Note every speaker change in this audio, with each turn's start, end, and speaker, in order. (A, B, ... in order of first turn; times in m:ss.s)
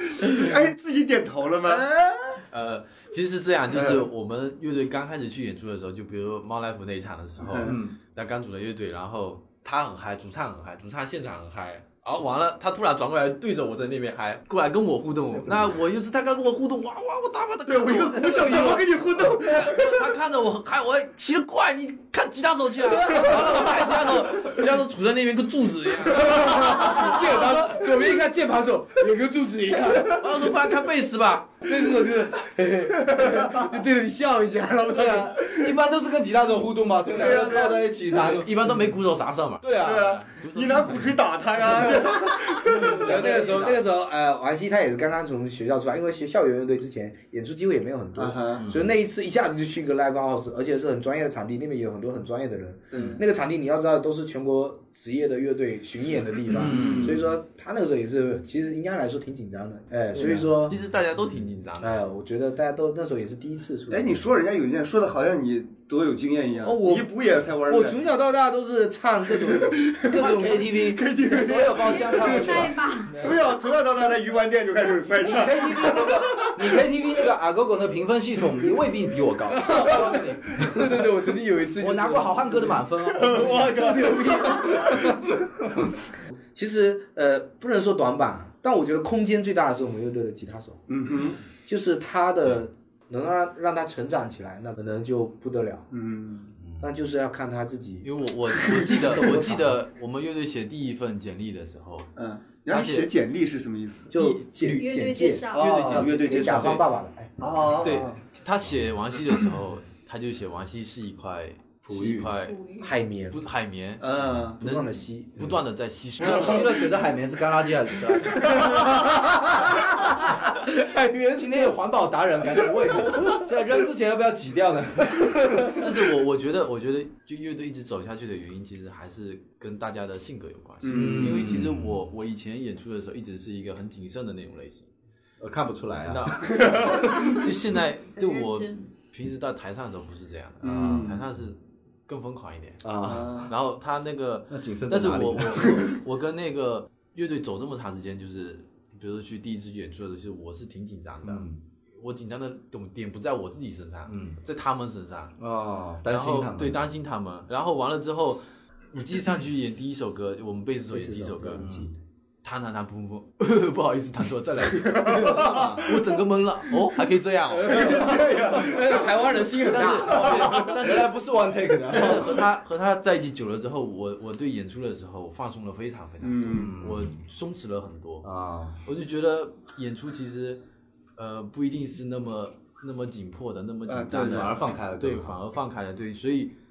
0:00.1-0:01.8 A
0:01.6-0:02.4 B
0:02.5-0:27.6 C
0:03.7-0:04.1 A
0:07.4-0:07.8 A
0:07.6-0:08.0 D
0:17.6-0:20.0 A
0:22.9-0:23.9 B
0:26.1-0:30.5 B
0:30.0-0:31.6 C
0:31.6-0:35.6 B
0:33.2-0:33.7 A
0:34.9-0:38.8 D
0:37.1-0:37.9 A
0:38.1-0:41.2 C
0:39.6-0:40.1 D
0:39.8-0:43.5 A
0:41.8-0:42.3 B
0:42.7-0:43.8 D
0:42.8-1:00.8 B
0:43.2-0:43.6 C
0:48.2-0:48.7 A
0:48.6-0:48.9 D
0:52.9-0:53.2 A
0:52.9-0:53.2 D
0:56.5-0:57.2 D
0:56.5-0:57.2 A
1:00.6-1:02.0 C
1:01.8-1:04.2 B
1:03.9-1:08.1 A
1:06.6-1:07.1 B
1:07.7-1:10.7 B
1:09.4-1:12.2 A
1:10.1-1:12.8 D
1:11.9-1:13.3 E
1:13.2-1:16.8 A
1:15.2-1:21.1 D
1:19.5-1:22.8 B
1:21.8-1:24.2 D
1:23.1-1:25.2 A
1:23.6-1:25.2 B
1:26.5-1:30.8 B
1:30.9-1:31.4 A
1:31.6-1:35.9 B
1:35.9-1:36.5 A
1:36.8-1:38.1 B
1:38.0-1:42.1 C
1:38.8-1:39.8 B
1:42.2-1:44.1 A
1:42.7-1:43.1 C
1:44.1-1:47.5 B
1:44.1-1:44.9 C
1:44.7-1:45.9 E
1:45.5-1:46.8 A
1:45.6-1:46.8 C
1:47.4-1:48.2 A
1:47.8-1:52.6 C
1:51.9-1:52.3 D
1:52.4-1:52.9 E
1:52.8-1:53.4 B
1:53.3-1:56.9 C
1:54.0-1:54.6 A
1:54.6-1:55.4 B
1:56.2-1:58.9 D
1:56.2-1:56.5 A
1:58.5-2:01.7 B
2:01.3-2:05.8 D
2:03.1-2:03.4 B
2:05.2-2:05.7 B
2:05.7-2:14.9 C
2:10.8-2:11.6 A
2:10.9-2:12.0 D
2:15.4-2:17.3 D
2:16.0-2:31.5 C
2:16.9-2:17.4 E
2:18.2-2:18.8 E
2:20.6-2:21.2 A
2:22.8-2:23.5 D
2:23.0-2:23.5 A
2:24.5-2:25.7 D
2:31.2-2:31.6 D
2:32.0-2:35.4 C
2:34.1-2:34.4 D
2:35.4-2:36.8 D
2:36.0-2:38.4 C
2:38.9-2:41.9 C
2:40.9-2:41.6 B
2:41.6-2:41.9 D
2:42.4-2:48.2 C
2:45.0-2:45.7 A
2:45.3-2:46.0 D
2:47.6-2:50.6 B
2:47.6-2:50.7 A
2:49.6-2:51.2 C
2:50.1-2:52.4 D
2:51.9-2:58.3 C
2:56.2-2:56.8 A
2:56.5-2:57.1 D
2:58.2-2:58.8 D
2:58.8-3:00.6 C
3:01.2-3:06.5 C
3:03.9-3:04.5 A
3:04.1-3:05.4 D